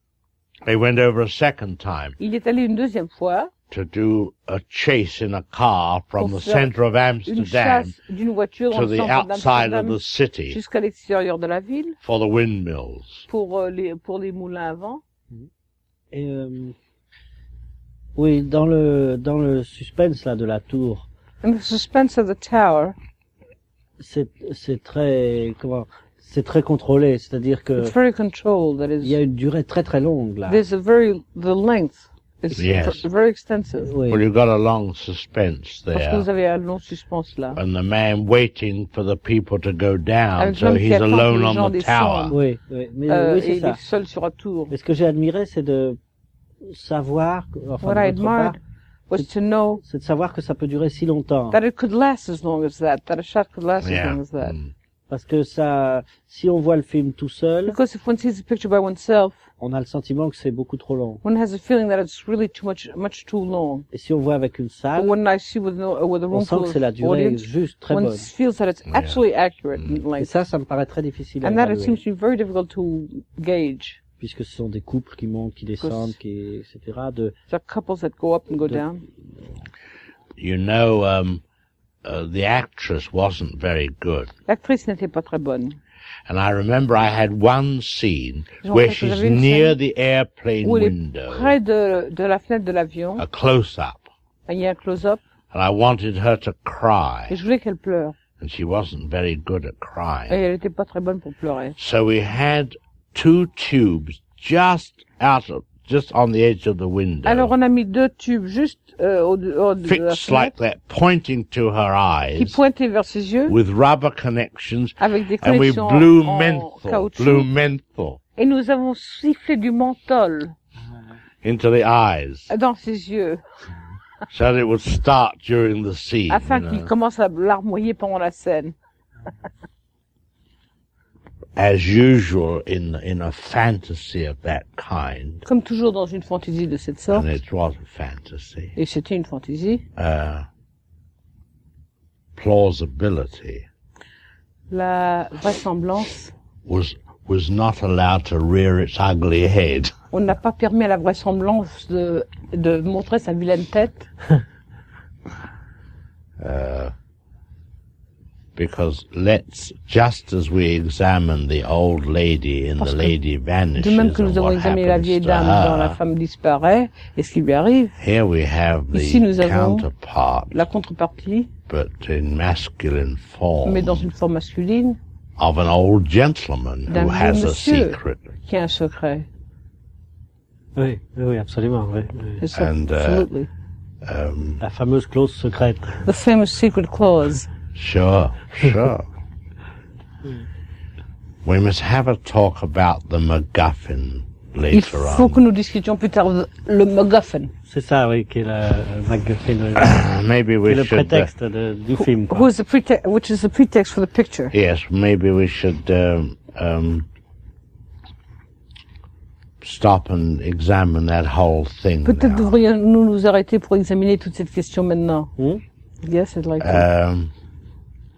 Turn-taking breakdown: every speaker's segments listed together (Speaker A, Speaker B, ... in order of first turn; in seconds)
Speaker A: 0.7-2.2, 3.7-7.9, 8.7-10.6, 12.0-13.3, 32.6-33.0, 34.1-36.3, 37.5-42.4, 53.8-54.7, 68.9-69.2, 80.4-81.4, 82.0-84.3, 86.3-91.6, 93.2-94.1, 95.5-97.4, 98.4-100.4, 101.8-107.5, 109.9-112.6, 113.5-118.2, 121.4-122.5, 124.3-126.9, 131.6-135.4, 137.1-138.8, 140.0-140.5, 142.4-143.7, 146.7-149.9, 156.4-156.9, 158.6-166.0, 168.0-170.7, 171.7-174.1, 175.4-178.3, 182.5-183.3, 184.0-184.6, 187.8-189.1, 191.4-195.4, 199.8-201.3, 204.5-207.1, 209.6-212.5, 216.6-217.3
Speaker B: 2.2-3.5, 6.2-6.7, 7.3-10.0, 10.5-12.0, 13.3-15.0, 21.4-23.0, 27.8-29.2, 30.5-33.9, 35.9-37.6, 40.4-42.4, 43.1-44.7, 47.8-49.8, 51.5-54.5, 57.7-59.5, 61.2-63.9, 65.0-70.3, 71.4-74.0, 75.8-76.2, 77.5-79.0, 84.5-85.8, 88.6-89.8, 90.6-93.2, 94.5-95.2, 97.3-98.2, 100.3-101.8, 107.2-110.5, 112.4-113.6, 115.0-117.5, 118.4-120.5, 122.5-123.4, 126.3-128.8, 135.4-137.3, 138.8-139.8, 144.7-146.3, 150.1-154.1, 162.8-163.2, 163.8-168.0, 168.9-169.9, 170.5-171.5, 173.7-175.0, 176.9-179.3, 182.4-183.5, 186.1-187.5, 194.7-197.5, 202.3-204.6, 212.1-215.3, 216.0-216.9
Speaker C: 16.1-16.8, 18.2-21.1, 24.0-27.9, 29.0-30.6, 33.8-34.2, 42.3-43.8, 44.7-46.0, 46.6-48.6, 49.8-51.6, 55.1-57.8, 59.6-61.2, 63.9-65.2, 66.3-68.3, 70.2-72.0, 74.2-77.3, 180.8-182.4, 184.6-186.1, 197.7-200.0, 200.7-202.5, 215.4-215.6